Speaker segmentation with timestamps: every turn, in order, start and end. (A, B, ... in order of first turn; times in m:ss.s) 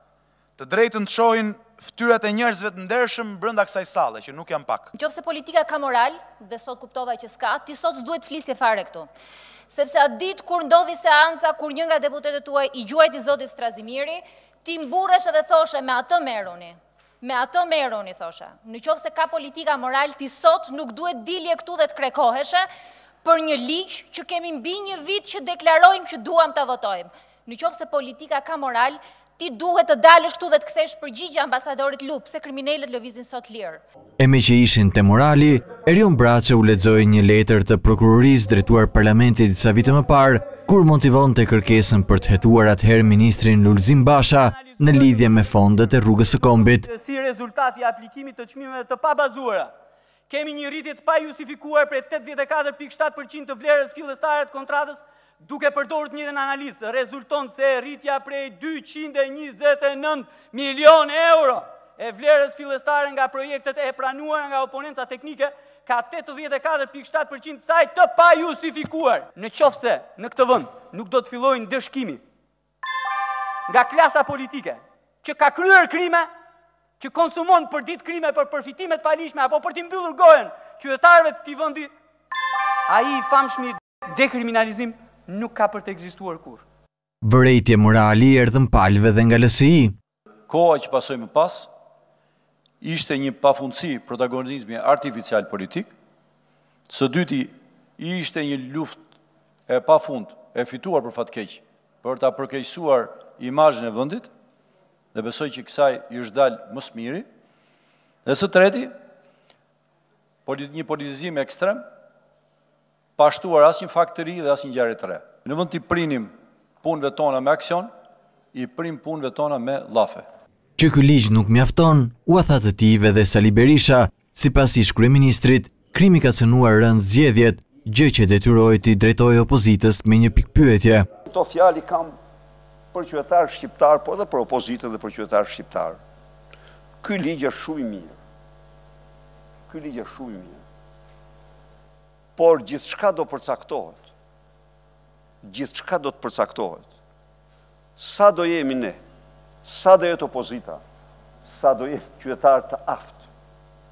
0:00.6-0:04.9 A
0:04.9-0:09.1 B
0:09.7-0:22.7 B
0:23.2-0:33.8 B
0:34.2-0:46.8 C
0:44.4-0:49.7 D
0:50.3-1:12.2 D
1:13.7-1:16.3 D
1:17.0-1:21.9 D
1:22.9-1:26.6 D
1:27.2-1:29.9 C
1:30.5-1:31.7 E
1:32.8-1:35.9 E
1:36.9-1:39.0 E
1:39.7-1:44.3 E
1:45.1-1:47.2 E
1:48.2-1:48.9 E
1:50.4-1:51.8 E
1:53.2-1:57.9 E
1:58.5-2:00.2 E
2:00.8-2:11.0 C
2:11.3-2:12.1 F
2:12.9-2:16.0 F
2:17.0-2:18.2 F
2:19.7-2:20.6 F
2:22.4-2:24.1 F
2:25.4-2:26.9 F
2:28.0-2:29.0 F
2:29.6-2:30.8 F
2:31.4-2:33.3 F